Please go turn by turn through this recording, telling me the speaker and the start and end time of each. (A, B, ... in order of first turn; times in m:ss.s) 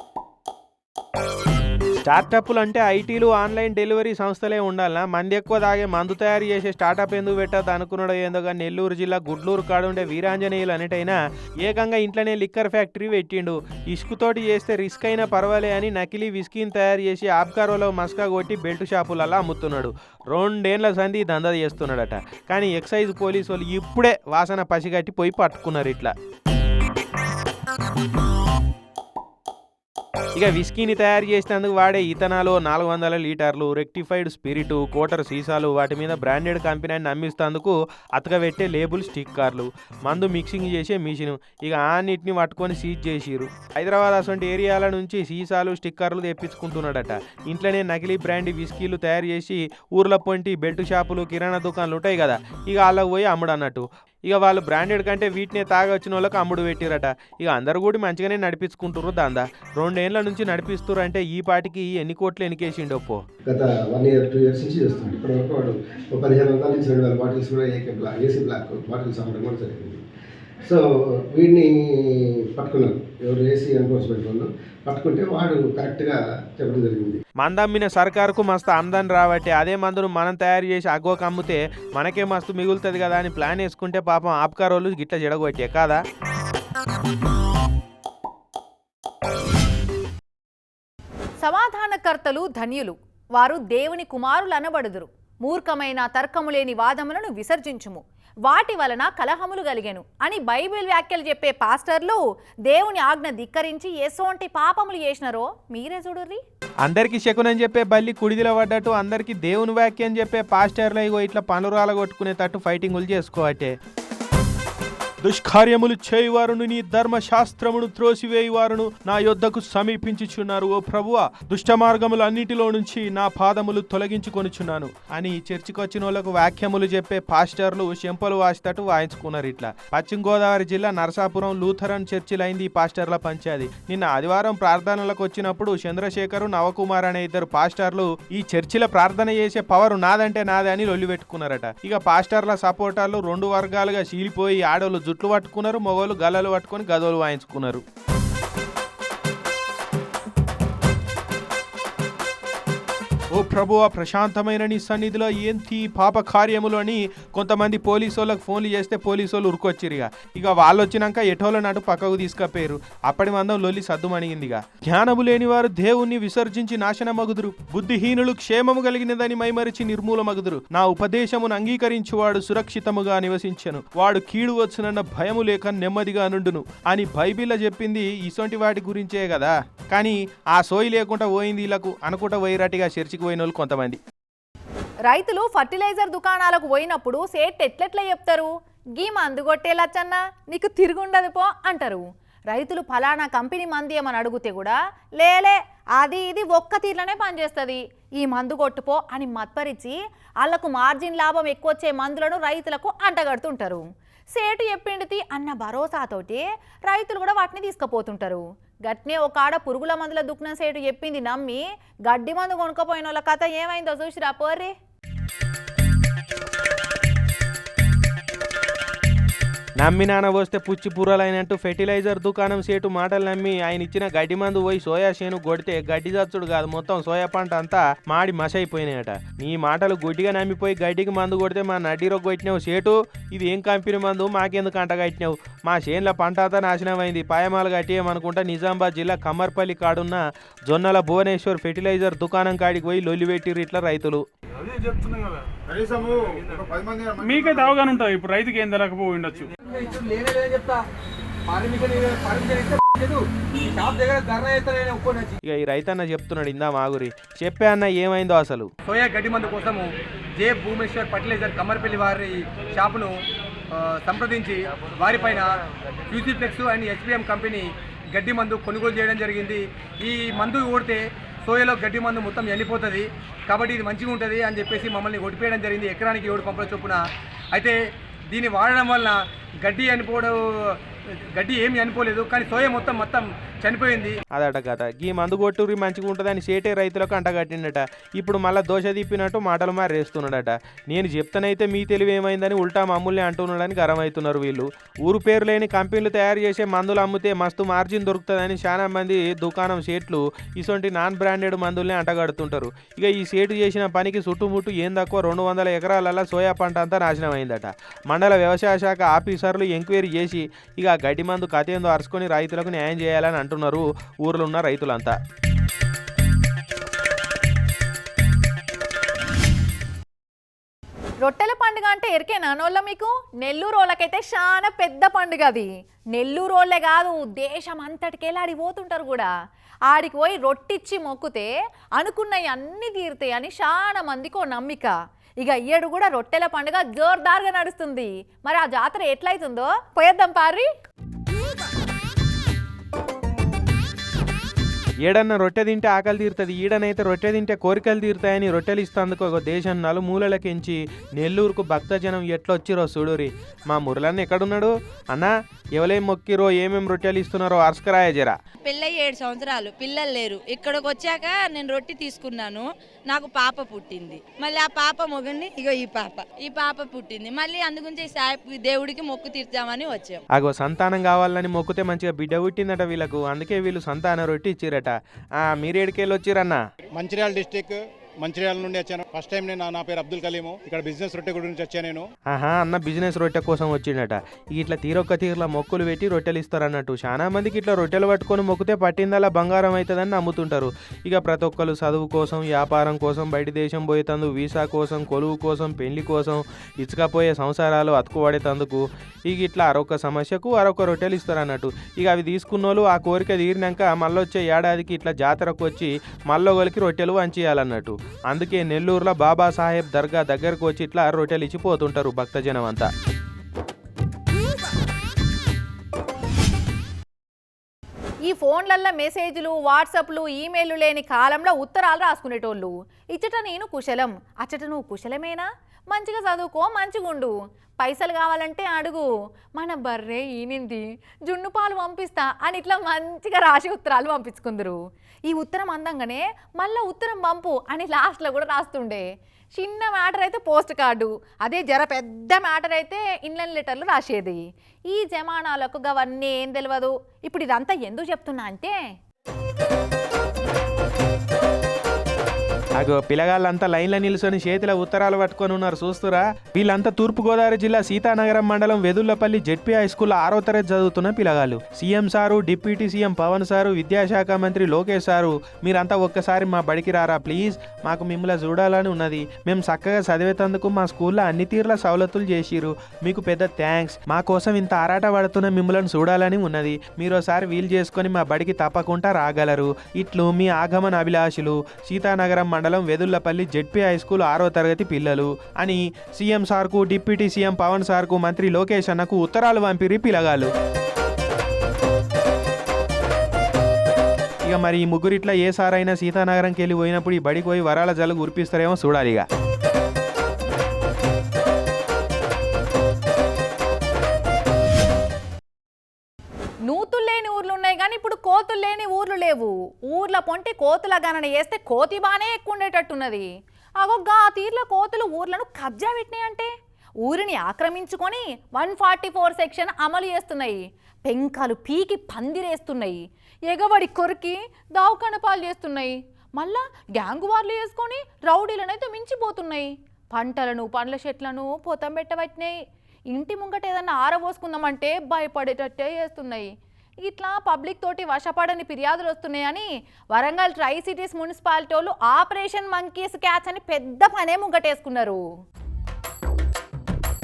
0:02.0-0:26.1 A
0:30.3-1:03.2 A
1:03.4-1:10.0 B
1:10.6-1:17.2 B
1:17.4-1:26.0 A
1:31.4-1:46.4 C
1:46.8-1:53.7 A
1:55.2-2:27.8 A
2:33.3-3:04.0 A
3:05.1-3:34.7 C
3:39.8-4:04.2 A
4:07.2-4:09.4 D
4:09.8-4:10.8 E
4:11.5-4:15.3 E
4:15.4-4:18.7 A
4:18.9-4:19.9 E
4:20.4-4:23.1 E
4:23.7-4:25.4 E
4:26.1-4:37.0 E
4:38.3-4:40.3 E
4:41.3-4:44.1 E
4:44.3-5:15.1 A
5:21.2-5:29.3 C
5:29.9-5:40.7 C
5:45.0-5:58.3 A
5:58.6-6:10.2 F
6:10.3-6:16.6 A
6:16.9-6:22.0 G
6:22.3-6:52.9 A
6:58.3-7:19.0 C
7:19.6-7:28.8 C
7:32.8-8:10.5 A
8:14.4-8:19.2 A
8:26.7-8:33.3 C
8:33.8-8:36.5 C
8:37.0-8:52.5 C
8:53.1-8:56.5 C
8:57.0-9:05.2 C